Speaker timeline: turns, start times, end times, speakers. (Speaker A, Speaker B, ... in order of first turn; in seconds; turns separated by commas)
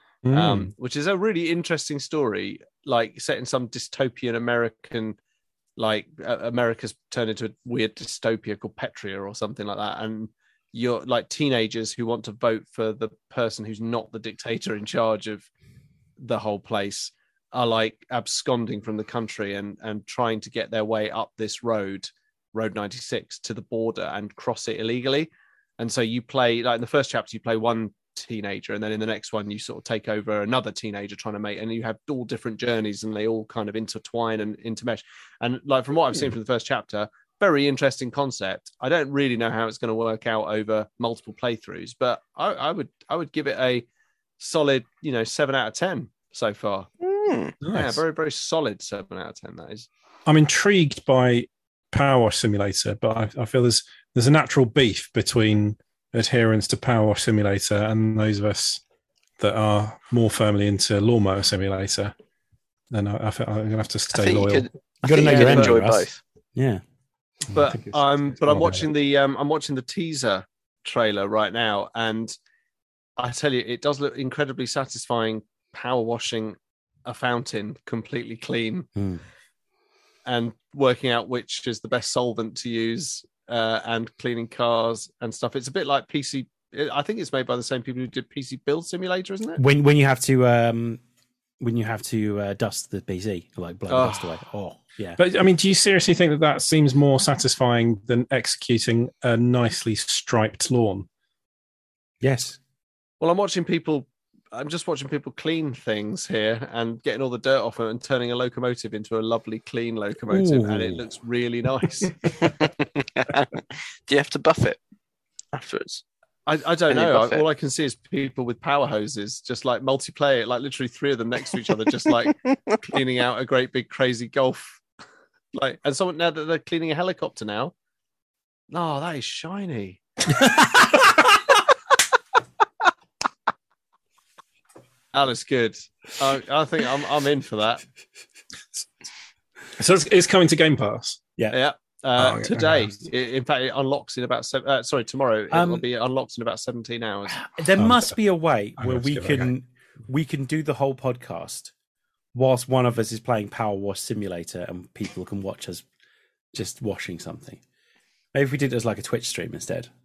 Speaker A: 0.3-0.7, Speaker B: 0.3-5.2, Speaker B: 5.8-15.5, Speaker B: 16.2-43.9, Speaker B: 44.4-46.9, Speaker C: 47.0-47.5, Speaker A: 47.6-48.0, Speaker B: 47.7-49.9, Speaker A: 50.3-58.8, Speaker A: 59.4-62.1, Speaker A: 62.9-64.7, Speaker C: 64.1-66.2, Speaker D: 65.0-66.8, Speaker A: 65.3-65.7, Speaker B: 67.5-72.3, Speaker A: 67.5-68.9, Speaker B: 73.2-78.9, Speaker D: 79.0-79.2, Speaker B: 80.3-89.6, Speaker D: 89.6-91.0, Speaker D: 91.6-95.2, Speaker B: 93.9-94.3, Speaker A: 95.2-101.1, Speaker D: 102.2-102.6, Speaker B: 103.2-112.5, Speaker D: 110.3-111.0, Speaker C: 112.6-114.8, Speaker C: 115.5-116.0, Speaker B: 116.5-124.8, Speaker C: 116.9-117.4, Speaker B: 125.5-127.7, Speaker B: 128.7-130.0, Speaker D: 130.3-131.2, Speaker B: 135.1-137.8, Speaker A: 139.8-141.2, Speaker B: 141.5-147.4, Speaker A: 142.2-143.0, Speaker D: 145.5-145.8, Speaker D: 147.3-151.7, Speaker A: 147.8-148.2, Speaker A: 148.8-149.5, Speaker D: 152.3-155.8, Speaker D: 156.5-157.6, Speaker D: 158.3-159.9